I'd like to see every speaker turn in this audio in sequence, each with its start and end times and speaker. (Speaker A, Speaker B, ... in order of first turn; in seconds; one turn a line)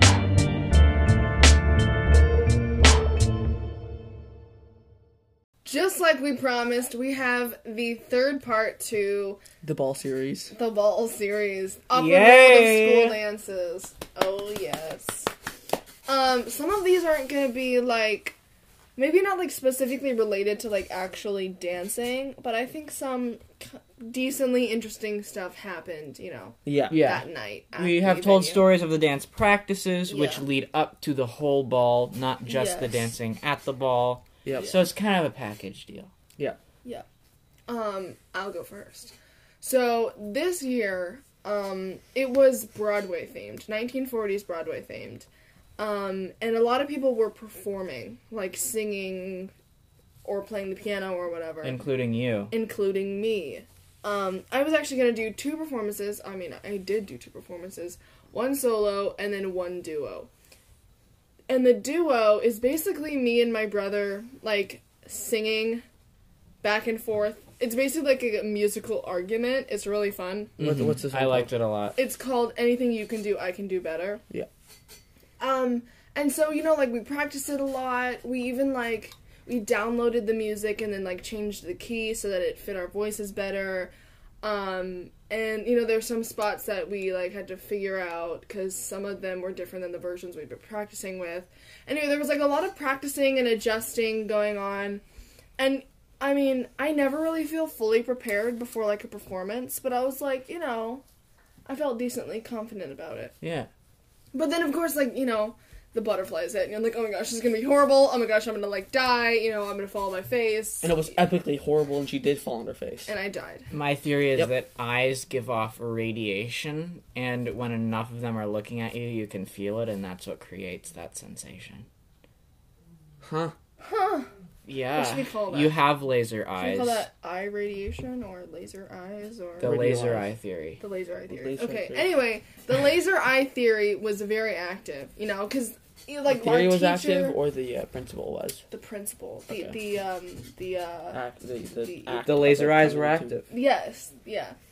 Speaker A: 5.6-9.4
Speaker B: 9.6-10.5
Speaker A: 10.5-15.3
Speaker C: 11.9-13.2
Speaker A: 16.1-18.4
Speaker A: 18.9-28.6
Speaker B: 26.6-27.0
Speaker C: 26.9-36.1
Speaker A: 30.1-30.4
Speaker A: 32.5-33.1
Speaker B: 34.4-34.7
Speaker A: 37.7-45.2
Speaker A: 45.8-49.5
Speaker A: 50.2-51.8
Speaker C: 51.6-52.5
Speaker A: 52.5-60.3
Speaker A: 61.5-65.8
Speaker A: 66.6-70.5
Speaker C: 70.6-72.0
Speaker B: 70.6-71.5
Speaker A: 72.0-74.2
Speaker A: 75.4-95.0
Speaker A: 95.6-101.0
Speaker A: 101.7-103.3
Speaker C: 103.4-103.7
Speaker A: 104.3-111.2
Speaker B: 110.8-113.1
Speaker A: 113.1-113.7
Speaker C: 113.7-121.8
Speaker B: 123.2-123.5
Speaker A: 123.8-124.3
Speaker C: 124.7-127.0
Speaker A: 124.9-125.8
Speaker A: 126.6-129.8
Speaker C: 129.6-130.8
Speaker B: 129.6-130.3
Speaker A: 130.8-137.4
Speaker B: 131.3-132.1
Speaker B: 136.3-138.6
Speaker A: 138.7-141.2
Speaker B: 141.1-143.4
Speaker A: 141.8-142.2
Speaker C: 142.2-143.5
Speaker A: 143.5-144.6